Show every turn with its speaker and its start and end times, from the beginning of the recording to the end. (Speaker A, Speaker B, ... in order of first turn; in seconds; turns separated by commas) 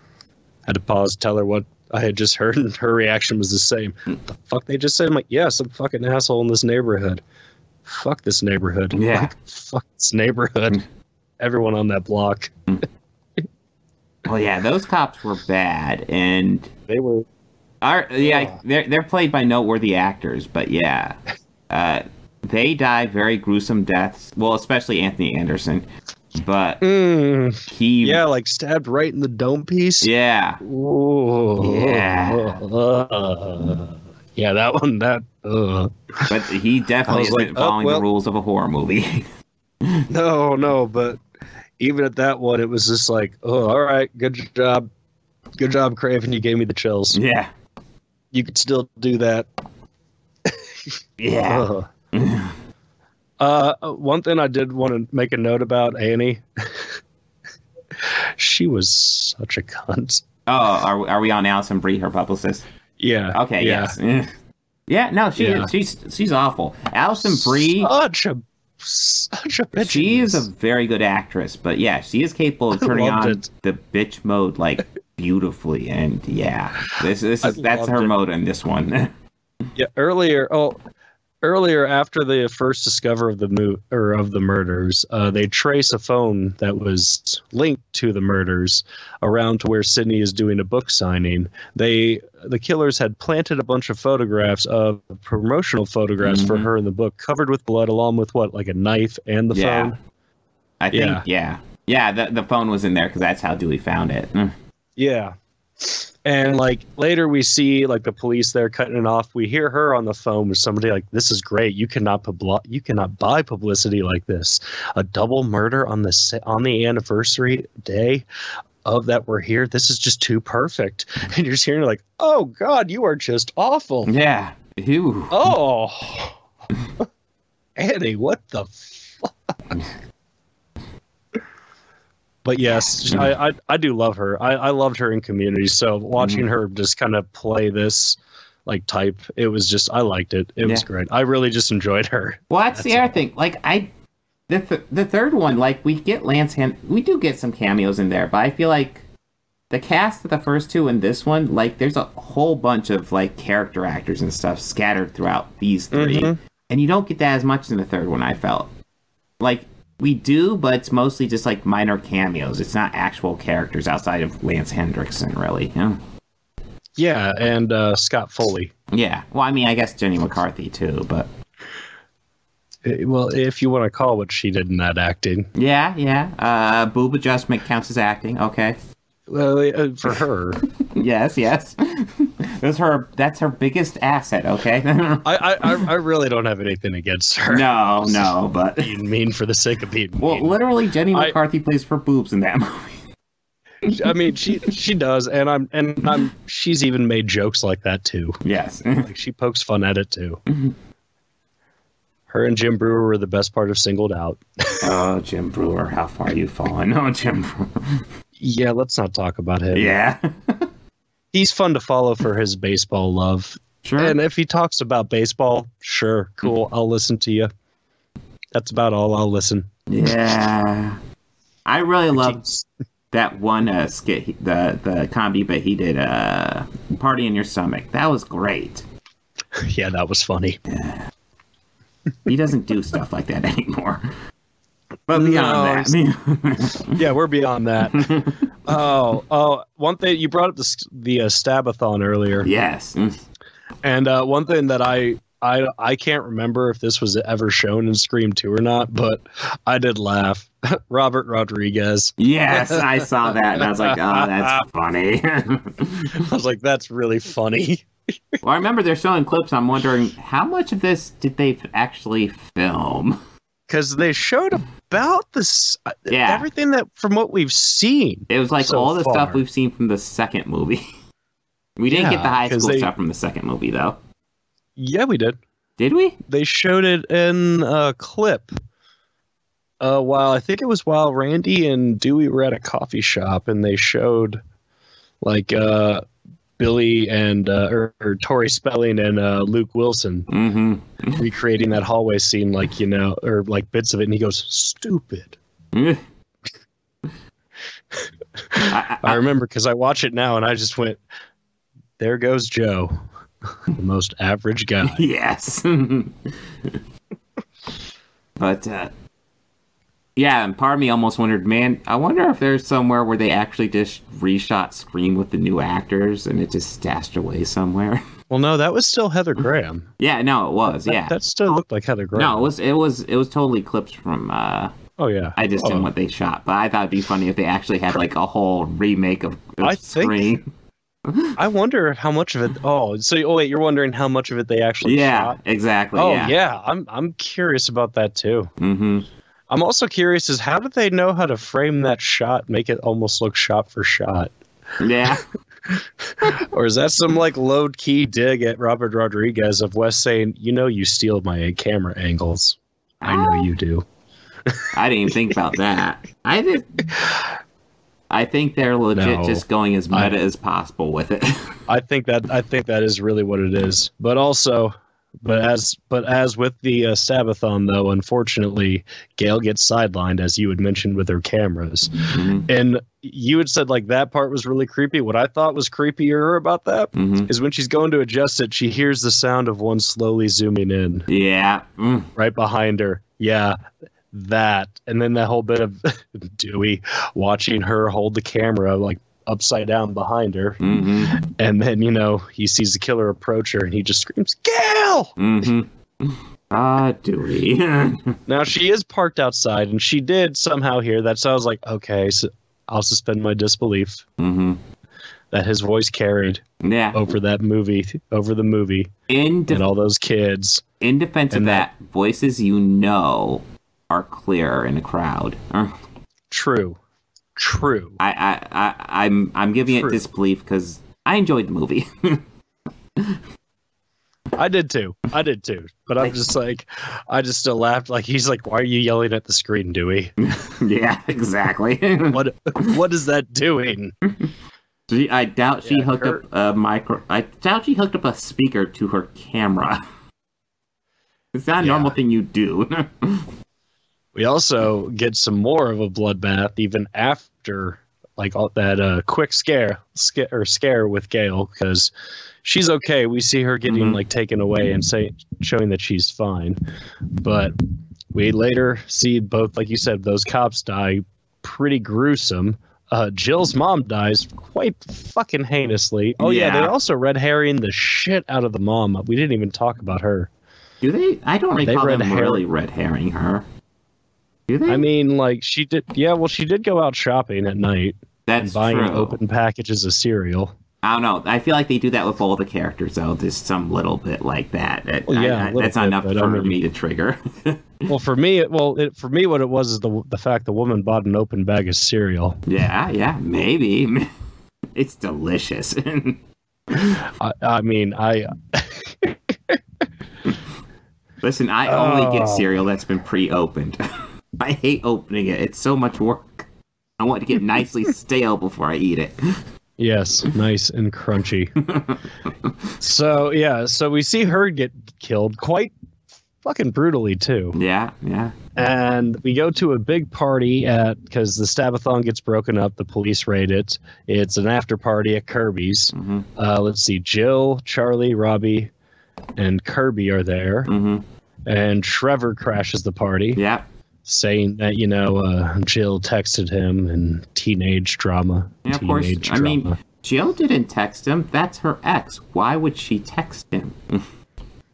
Speaker A: 0.7-7.2, Speaker A: 7.8-10.8, Speaker B: 8.9-9.3, Speaker A: 11.4-12.6, Speaker B: 14.2-16.7, Speaker A: 16.9-17.3, Speaker B: 17.8-21.2, Speaker A: 18.2-18.6, Speaker B: 21.7-26.9, Speaker A: 26.8-30.1, Speaker B: 27.7-28.2, Speaker B: 30.0-30.6, Speaker A: 30.6-36.4, Speaker B: 31.6-32.6, Speaker B: 36.3-39.3, Speaker A: 37.1-38.0, Speaker A: 40.1-41.2, Speaker A: 41.8-44.9, Speaker A: 45.6-47.2, Speaker B: 47.1-47.5, Speaker A: 48.3-49.5, Speaker A: 50.5-50.9, Speaker B: 51.2-52.5, Speaker A: 51.5-51.9, Speaker A: 53.4-57.0, Speaker A: 58.0-60.2, Speaker B: 60.5-62.6, Speaker A: 63.0-64.0, Speaker B: 63.3-64.3, Speaker B: 64.9-67.9, Speaker A: 65.4-65.7, Speaker A: 67.4-70.4, Speaker B: 69.8-79.1, Speaker A: 72.8-73.5, Speaker A: 77.4-78.2, Speaker A: 79.8-80.8, Speaker A: 81.4-100.0, Speaker B: 96.2-96.7, Speaker B: 99.5-99.9, Speaker B: 100.8-104.5, Speaker A: 100.9-101.2, Speaker A: 105.0-118.3, Speaker A: 118.8-124.1, Speaker B: 124.0-125.5, Speaker A: 125.3-126.4, Speaker A: 127.8-129.8, Speaker A: 132.4-143.2, Speaker B: 136.2-136.4, Speaker B: 142.5-143.9, Speaker B: 144.5-149.1, Speaker B: 149.7-158.7, Speaker A: 155.9-156.4, Speaker B: 159.4-166.0, Speaker A: 167.0-168.7, Speaker B: 168.9-171.3, Speaker A: 172.8-175.5, Speaker B: 175.6-178.8, Speaker A: 179.3-180.6, Speaker B: 180.8-185.8, Speaker A: 185.2-190.6, Speaker B: 187.5-188.9, Speaker B: 190.2-193.0, Speaker A: 193.8-198.4, Speaker B: 198.4-199.1, Speaker A: 199.0-200.4, Speaker A: 202.3-204.9, Speaker B: 204.8-208.0, Speaker A: 208.4-210.0, Speaker B: 209.7-210.7, Speaker A: 211.3-217.5, Speaker B: 213.8-214.2, Speaker A: 218.5-219.7, Speaker B: 219.9-221.0, Speaker B: 221.7-222.4, Speaker A: 222.2-222.7, Speaker B: 223.1-228.8, Speaker A: 229.6-230.6, Speaker B: 230.7-231.1, Speaker B: 232.3-234.1, Speaker B: 235.1-237.0, Speaker A: 235.1-236.0, Speaker A: 236.9-238.1, Speaker B: 237.9-238.4, Speaker A: 238.7-242.5, Speaker B: 242.4-243.2, Speaker A: 243.8-254.6, Speaker B: 252.2-256.2, Speaker A: 256.1-258.4, Speaker B: 258.4-263.2, Speaker A: 263.7-269.4, Speaker B: 266.1-266.5, Speaker B: 268.3-270.9, Speaker B: 271.8-274.0, Speaker A: 271.9-272.9, Speaker A: 274.8-275.4, Speaker B: 275.8-276.2, Speaker A: 276.3-278.5, Speaker A: 279.8-284.4, Speaker A: 285.2-286.0, Speaker A: 286.6-290.3, Speaker B: 290.3-291.2, Speaker A: 291.2-295.4, Speaker B: 295.7-296.0, Speaker A: 298.5-301.0, Speaker B: 298.6-299.2, Speaker A: 302.0-303.0, Speaker A: 303.7-305.1, Speaker B: 304.9-306.7, Speaker B: 308.4-308.9, Speaker B: 310.2-318.0, Speaker A: 318.3-319.9, Speaker B: 320.0-321.1, Speaker A: 320.7-322.5, Speaker B: 322.1-324.7, Speaker A: 325.0-325.9, Speaker B: 325.4-330.5, Speaker A: 329.6-330.3, Speaker B: 331.1-331.4, Speaker A: 331.4-335.4, Speaker B: 334.8-336.4, Speaker A: 335.9-338.5, Speaker B: 338.6-339.1, Speaker A: 339.5-344.3, Speaker B: 344.8-345.3, Speaker A: 345.7-353.9, Speaker B: 353.0-353.5, Speaker B: 354.7-356.7, Speaker B: 358.1-361.5, Speaker A: 358.9-360.1, Speaker A: 361.7-381.1, Speaker B: 372.1-372.5, Speaker B: 376.9-377.3, Speaker B: 381.1-382.1, Speaker A: 382.2-383.6, Speaker A: 384.1-395.1, Speaker B: 390.6-391.2, Speaker B: 395.2-398.2, Speaker A: 398.3-404.0, Speaker B: 404.2-404.6, Speaker A: 405.3-408.9, Speaker B: 406.6-407.1, Speaker B: 409.1-409.6, Speaker A: 409.5-410.6, Speaker B: 410.8-415.8, Speaker A: 411.3-411.7, Speaker A: 416.3-416.8, Speaker A: 417.4-418.0, Speaker B: 418.0-422.2, Speaker A: 419.7-420.0, Speaker A: 424.4-430.1, Speaker B: 430.2-432.7, Speaker A: 432.1-433.9, Speaker B: 434.9-439.8, Speaker A: 435.6-436.2, Speaker B: 441.3-443.3, Speaker A: 441.6-441.9, Speaker A: 444.1-451.9, Speaker A: 452.4-456.6, Speaker B: 453.7-454.0, Speaker A: 457.1-457.6, Speaker A: 458.1-470.3, Speaker B: 466.2-466.8, Speaker B: 470.8-473.5, Speaker A: 471.6-472.4, Speaker B: 474.5-474.9, Speaker A: 474.7-480.6, Speaker B: 478.3-479.2, Speaker B: 480.8-487.9, Speaker A: 485.1-486.6, Speaker A: 487.9-492.4, Speaker B: 492.5-494.1, Speaker B: 494.8-496.2, Speaker A: 497.0-499.6, Speaker B: 501.2-503.8, Speaker A: 501.7-502.6, Speaker B: 504.4-506.5, Speaker B: 507.0-509.4, Speaker A: 509.8-511.5, Speaker B: 511.7-511.9, Speaker A: 512.8-515.7, Speaker A: 516.4-517.6, Speaker B: 517.5-518.4, Speaker A: 518.6-528.7, Speaker B: 525.9-526.3, Speaker A: 529.4-530.7, Speaker B: 530.7-531.0, Speaker A: 531.5-533.4, Speaker B: 533.4-533.7, Speaker A: 534.1-539.8, Speaker B: 538.6-544.1